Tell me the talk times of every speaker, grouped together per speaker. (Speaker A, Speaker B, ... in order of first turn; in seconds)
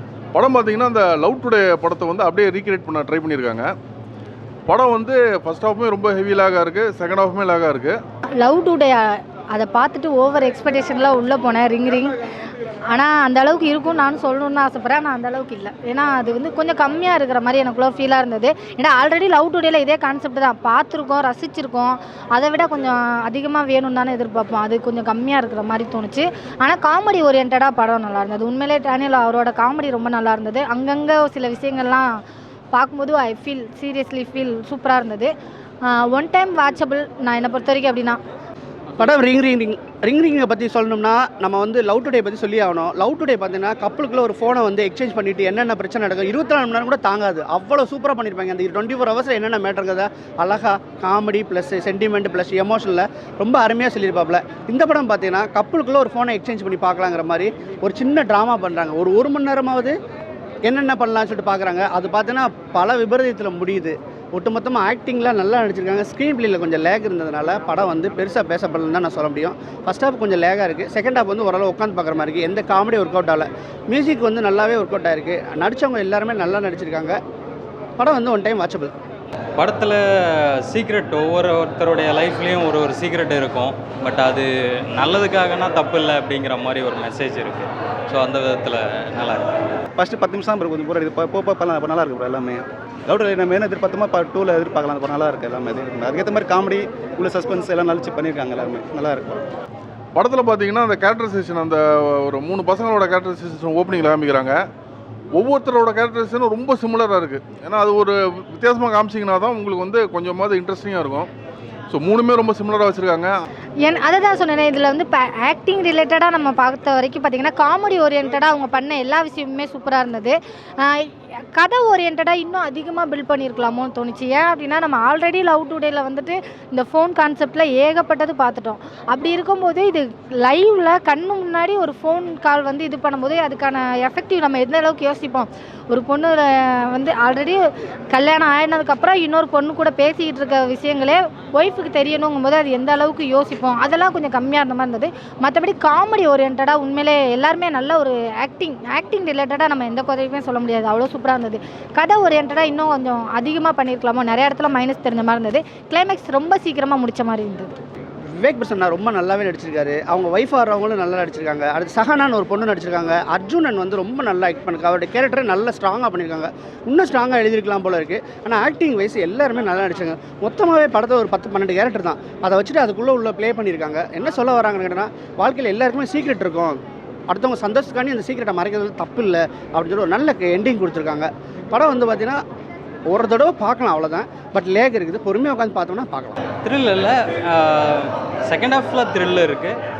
Speaker A: 0.3-3.7, 4.7-8.0, 100.1-104.6, 105.3-111.3, 111.9-113.5
Speaker B: 8.3-12.2, 12.9-32.2, 32.7-35.3, 35.8-38.2, 113.8-157.7
Speaker C: 39.0-60.0, 60.6-77.2, 78.0-78.9, 158.3-182.4, 183.1-186.4
Speaker D: 79.6-89.8, 186.5-189.7
Speaker E: 89.9-99.4